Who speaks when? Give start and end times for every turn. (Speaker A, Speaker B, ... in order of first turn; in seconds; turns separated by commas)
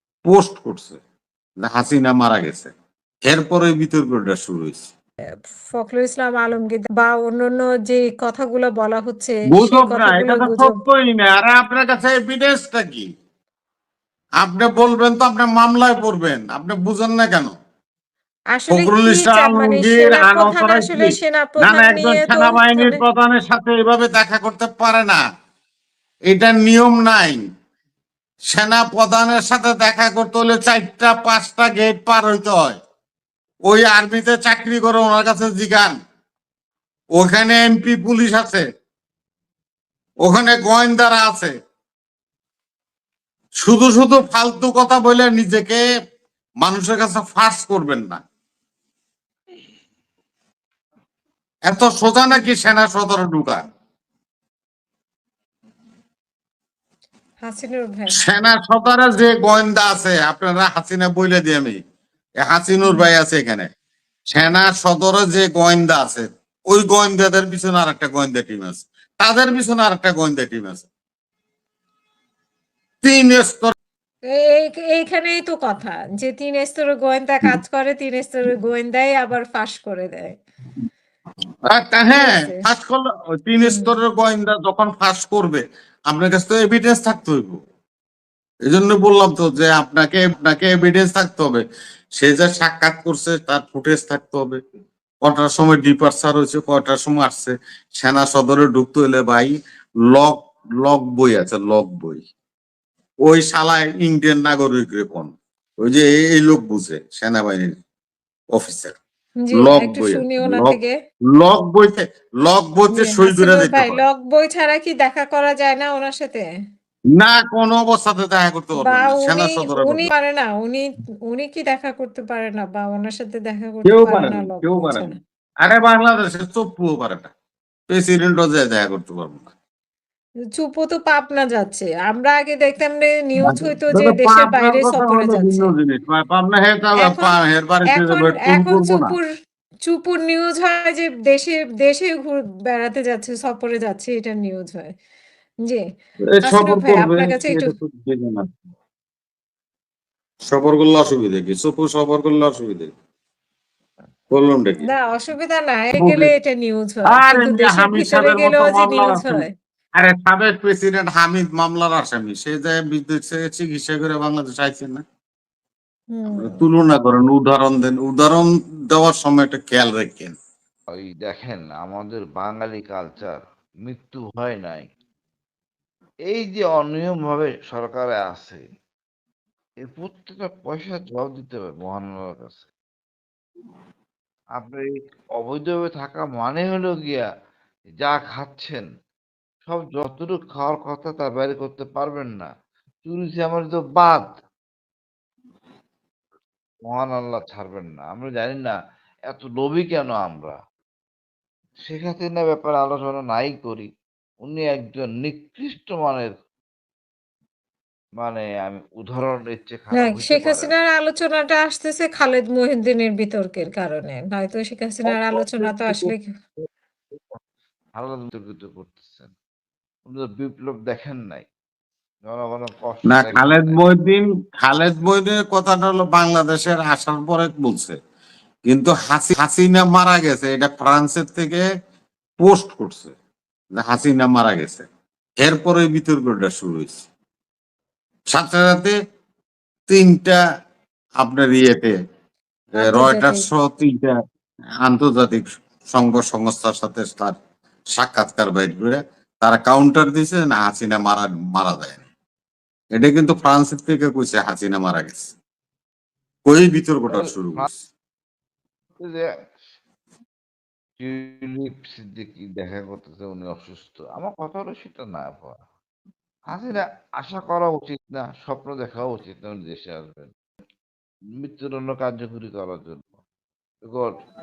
Speaker A: 0.3-1.0, Speaker A: 1.6-2.7, Speaker A: 3.2-4.9, Speaker B: 5.7-10.8, Speaker A: 9.5-13.1, Speaker A: 14.4-17.5, Speaker B: 18.5-23.0, Speaker A: 18.7-25.2, Speaker A: 26.3-27.4, Speaker A: 28.5-32.8, Speaker A: 33.7-35.9, Speaker A: 37.1-38.6, Speaker A: 40.2-41.5, Speaker A: 43.6-45.8, Speaker A: 46.6-48.2, Speaker A: 51.7-53.6, Speaker B: 57.4-58.2, Speaker A: 58.2-61.8, Speaker A: 62.4-63.7, Speaker B: 62.8-63.1, Speaker A: 64.3-70.9, Speaker A: 73.0-73.7, Speaker B: 74.3-80.3, Speaker A: 81.7-87.6, Speaker B: 82.1-82.6, Speaker B: 83.6-83.9, Speaker A: 88.7-91.6, Speaker A: 92.2-94.6, Speaker A: 95.2-99.5, Speaker A: 100.1-102.2, Speaker A: 103.2-107.8, Speaker A: 108.5-108.9, Speaker B: 109.4-110.9, Speaker A: 109.5-110.8, Speaker A: 111.3-114.0, Speaker B: 112.9-116.4, Speaker A: 117.2-120.1, Speaker B: 118.8-125.2, Speaker A: 123.8-127.3, Speaker A: 127.9-129.5, Speaker B: 130.6-135.7, Speaker A: 133.4-139.1, Speaker B: 137.0-139.3, Speaker B: 139.9-144.9, Speaker A: 146.3-148.4, Speaker B: 146.4-147.7, Speaker A: 150.4-152.9, Speaker A: 154.3-154.9, Speaker B: 154.8-159.5, Speaker A: 156.0-156.3, Speaker A: 157.1-159.4, Speaker A: 160.0-165.0, Speaker B: 166.1-166.6, Speaker A: 166.3-170.3, Speaker C: 170.9-174.8, Speaker C: 176.3-178.6, Speaker C: 179.8-182.7, Speaker C: 184.6-184.8, Speaker C: 185.4-187.3, Speaker C: 188.0-188.8, Speaker C: 189.7-192.5, Speaker C: 193.1-194.2, Speaker C: 196.8-198.8, Speaker C: 199.3-200.6, Speaker C: 201.8-203.9, Speaker C: 204.4-206.3, Speaker C: 208.2-210.7, Speaker B: 209.9-216.3, Speaker C: 215.1-216.1, Speaker C: 217.9-219.3, Speaker C: 220.1-221.5, Speaker C: 222.2-223.8, Speaker A: 223.1-228.0, Speaker A: 228.7-231.6, Speaker A: 232.4-233.1, Speaker A: 233.8-234.9, Speaker A: 235.4-237.1, Speaker A: 238.3-238.9, Speaker A: 239.9-240.4, Speaker A: 241.2-241.9, Speaker A: 242.7-244.1, Speaker B: 242.8-243.4, Speaker A: 244.8-247.4, Speaker A: 247.9-252.0, Speaker A: 253.0-255.3, Speaker A: 256.4-257.7, Speaker C: 257.1-257.7, Speaker C: 259.0-259.3, Speaker C: 261.0-265.6, Speaker C: 266.5-270.3, Speaker C: 271.4-273.1, Speaker C: 273.9-274.1